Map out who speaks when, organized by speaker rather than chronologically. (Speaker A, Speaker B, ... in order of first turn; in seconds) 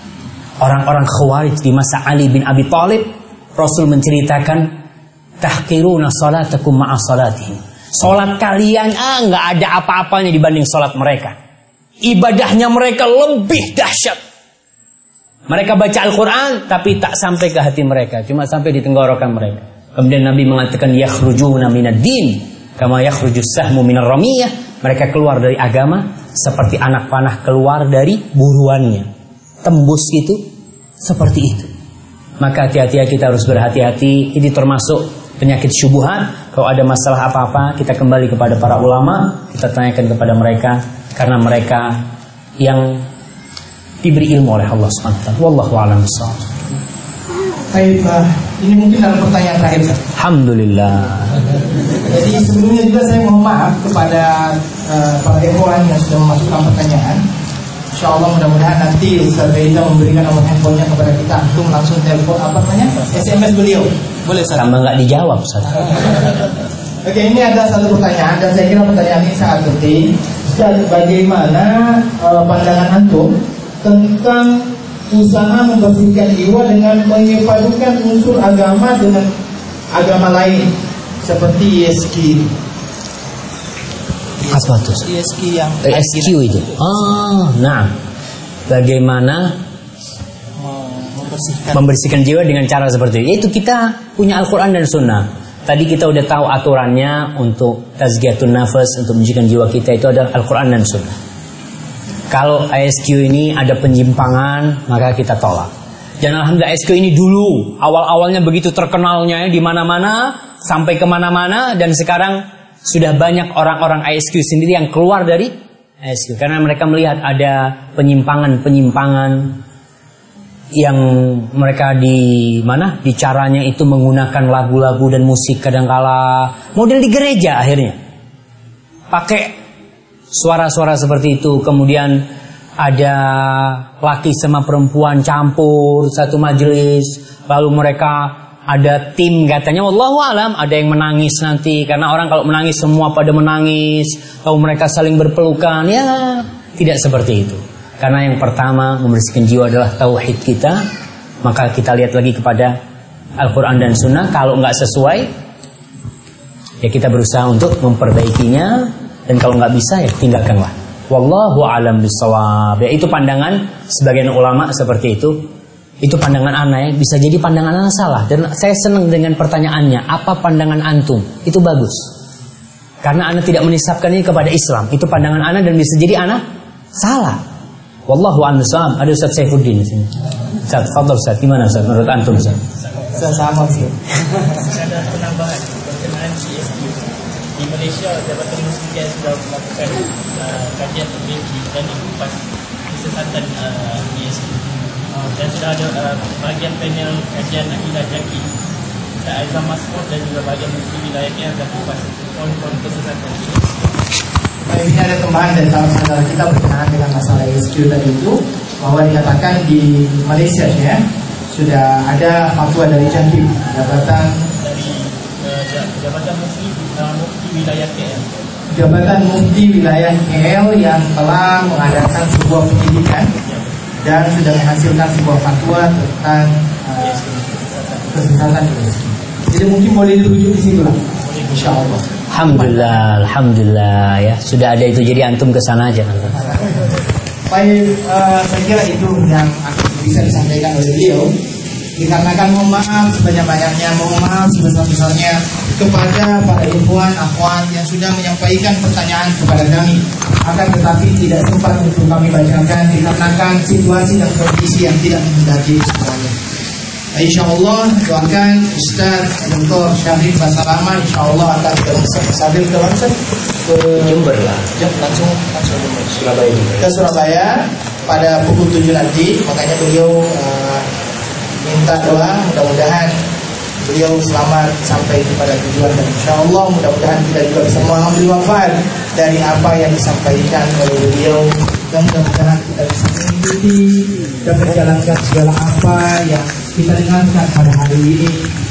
Speaker A: 0.6-4.7, 5.4-11.4, 12.0-14.2, 15.5-29.1, 29.6-30.4, 31.0-31.7, 32.4-42.1, 42.6-43.0, 44.0-46.5, 50.1-51.5, 64.5-66.1, 84.5-85.1, 85.8-87.9, 88.7-89.6, 91.7-101.2, 102.3-119.6, 120.7-128.0, 129.1-129.6, 130.3-132.3, 132.8-150.8, 151.4-152.8, 153.4-155.3, 156.8-165.5, 166.0-172.1, 173.0-176.4, 176.9-177.4, 178.1-180.2, 180.7-182.6, 232.3-236.6, 264.0-264.7, 266.2-267.0
Speaker B: 47.7-50.0, 52.0-57.2, 57.9-64.5, 67.0-79.3, 79.9-82.5, 84.4-86.6, 90.6-91.8, 183.1-184.0, 204.7-214.4, 218.7-223.3, 224.0-227.2, 228.1-232.0, 237.5-241.3, 241.9-256.4, 257.1-264.1, 264.8-266.0, 266.8-270.9, 271.6-273.2, 273.8-288.5
Speaker C: 184.6-198.5, 199.2-203.7, 214.6-218.3, 227.0-228.1, 231.3-231.7